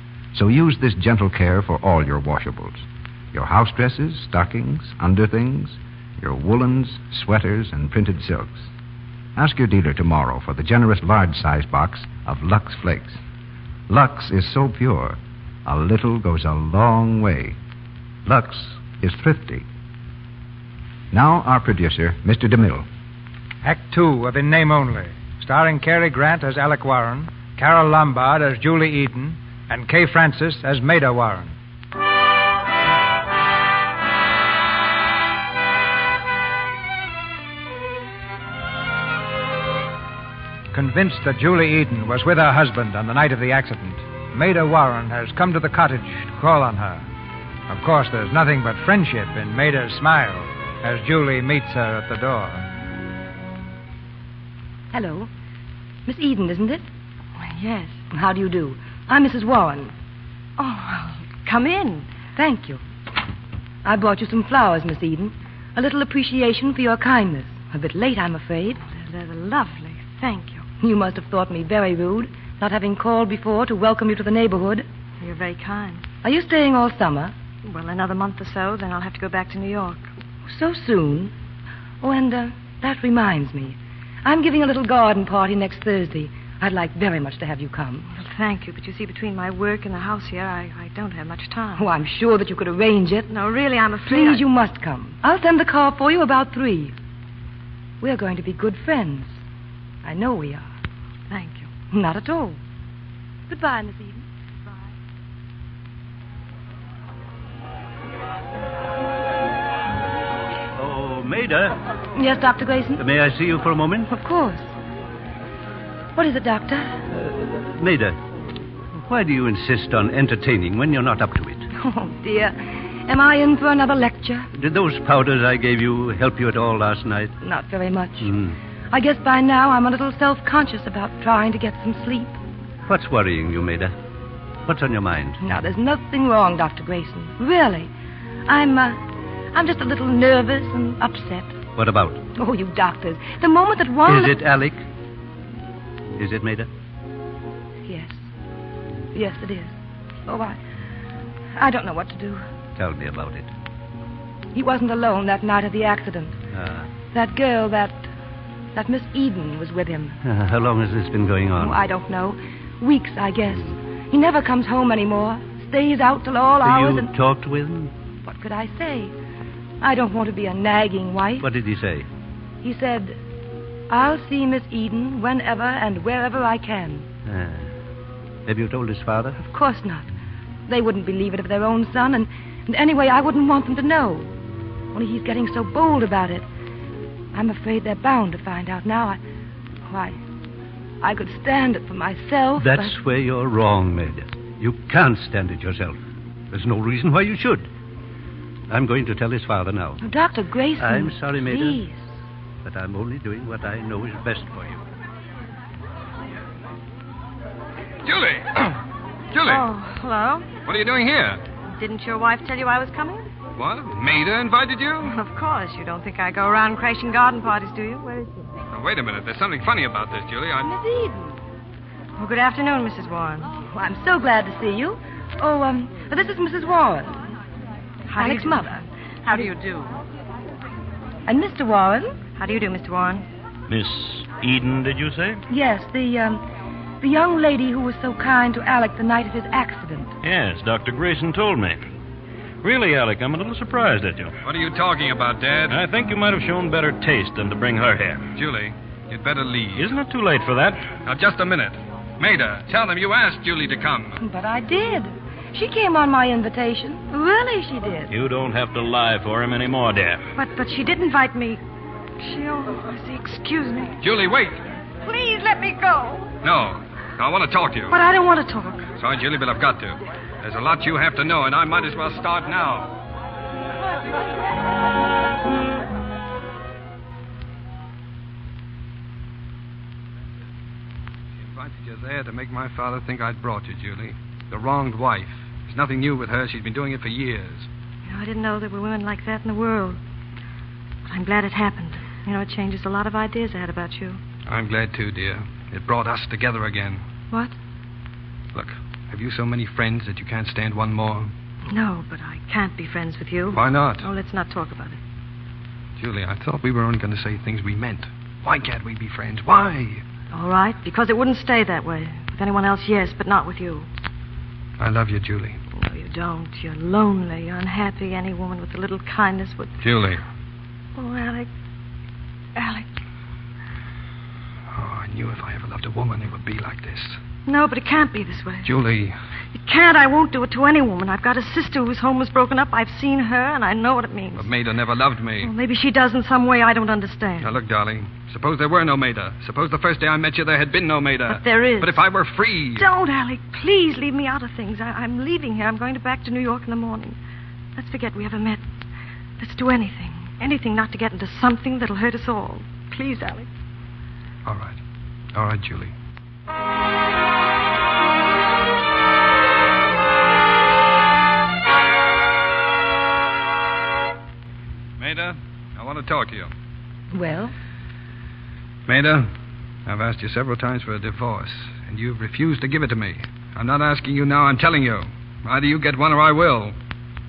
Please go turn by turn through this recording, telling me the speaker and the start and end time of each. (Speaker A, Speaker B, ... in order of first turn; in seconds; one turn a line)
Speaker A: 0.3-8.7
Speaker A: 9.4-13.2
Speaker A: 13.9-17.6
Speaker A: 18.3-19.6
Speaker A: 21.1-22.9
Speaker B: 23.6-31.5
Speaker B: 40.7-47.1
Speaker B: 47.7-52.6
Speaker C: 54.9-55.3
Speaker C: 56.1-56.9
Speaker D: 57.4-58.0
Speaker C: 58.1-59.9
Speaker D: 60.6-62.1
Speaker C: 62.4-62.8
Speaker C: 63.8-68.8
Speaker D: 68.8-70.7
Speaker C: 70.8-74.9
Speaker D: 75.2-76.0
Speaker C: 76.2-77.3
Speaker D: 77.7-80.1
Speaker C: 80.5-81.3
Speaker C: 82.0-88.1
Speaker D: 88.1-91.9
Speaker C: 91.8-93.3
Speaker D: 93.3-94.4
Speaker C: 94.1-96.9
Speaker C: 98.0-99.4
Speaker C: 100.0-100.7
Speaker D: 101.3-101.7
Speaker C: 101.9-102.6
Speaker C: 103.5-104.3
Speaker E: 110.8-111.8
Speaker C: 112.2-113.0
Speaker E: 113.0-114.1
Speaker C: 114.1-114.7
Speaker C: 116.2-117.0
Speaker E: 117.1-118.2
Speaker E: 119.0-121.7
Speaker C: 121.8-124.5
Speaker E: 124.5-127.3
Speaker C: 127.4-128.3
Speaker E: 128.2-128.6
Speaker C: 128.9-132.4
Speaker E: 132.9-133.9
Speaker E: 134.7-135.4
Speaker C: 135.4-137.9
Speaker C: 138.5-139.0
Speaker C: 139.5-141.5
Speaker E: 141.8-142.2
Speaker C: 142.4-144.4
Speaker E: 144.1-144.8
Speaker E: 146.2-146.7
Speaker C: 147.9-148.2
Speaker C: 149.1-149.8
Speaker C: 150.3-150.6
Speaker C: 151.6-152.4
Speaker E: 152.8-153.5
Speaker C: 154.5-156.4
Speaker E: 156.5-156.9
Speaker C: 157.1-158.1
Speaker C: 158.8-160.2
Speaker E: 160.2-161.8
Speaker C: 161.6-167.1
Speaker E: 166.6-167.9
Speaker C: 168.2-169.1
Speaker C: 169.8-171.5
Speaker E: 171.4-172.1
Speaker C: 172.6-173.2
Speaker C: 173.9-177.1
Speaker E: 177.3-177.7
Speaker E: 178.5-179.4
Speaker C: 179.4-180.1
Speaker C: 180.7-184.3
Speaker C: 184.9-186.4
Speaker C: 187.3-189.2
Speaker C: 189.9-190.2
Speaker C: 191.0-193.0
Speaker E: 192.6-196.0
Speaker E: 196.5-197.7
Speaker E: 198.7-200.0
Speaker C: 200.0-202.1
Speaker E: 200.8-201.8
Speaker E: 202.6-204.8
Speaker F: 208.1-208.8
Speaker F: 209.3-209.7
Speaker D: 209.4-210.5
Speaker F: 210.7-211.4
Speaker D: 211.7-213.3
Speaker F: 213.6-215.2
Speaker D: 215.0-218.6
Speaker F: 218.7-220.7
Speaker C: 220.7-221.4
Speaker D: 222.2-223.5
Speaker C: 223.7-227.2
Speaker D: 228.1-229.9
Speaker C: 228.2-228.8
Speaker C: 231.3-232.2
Speaker D: 232.4-233.3
Speaker G: 233.7-235.4
Speaker C: 235.5-236.4
Speaker C: 237.0-240.1
Speaker G: 240.2-241.8
Speaker G: 242.6-244.4
Speaker F: 244.4-245.8
Speaker G: 245.7-248.3
Speaker F: 248.4-249.9
Speaker G: 249.8-250.9
Speaker F: 251.0-254.2
Speaker C: 254.2-258.1
Speaker G: 258.1-260.2
Speaker D: 260.4-261.6
Speaker D: 262.2-264.0
Speaker F: 264.0-264.6
Speaker D: 265.0-266.3
Speaker F: 266.4-267.9
Speaker D: 267.9-268.9
Speaker F: 269.0-272.9
Speaker F: 281.4-287.7
Speaker D: 288.1-290.0
Speaker D: 291.1-294.2
Speaker F: 294.5-297.0
Speaker F: 298.5-301.3
Speaker D: 301.7-305.0
Speaker F: 303.5-304.1
Speaker F: 306.0-310.0
Speaker D: 310.3-313.9
Speaker F: 314.8-315.6
Speaker D: 315.7-319.7
Speaker F: 319.8-320.2
Speaker D: 321.0-321.5
Speaker D: 322.6-322.9
Speaker F: 324.7-327.2
Speaker D: 327.5-328.7
Speaker F: 328.6-329.1
Speaker D: 329.6-334.5
Speaker F: 334.4-335.5
Speaker D: 335.4-337.6
Speaker F: 337.4-342.9
Speaker D: 341.3-342.1
Speaker D: 342.8-347.2
Speaker D: 347.8-348.6
Speaker D: 349.4-353.5
Speaker F: 354.5-354.8
Speaker F: 355.3-355.9
Speaker F: 365.0-366.5
Speaker C: 367.1-367.5
Speaker F: 368.9-369.3
Speaker F: 369.9-376.8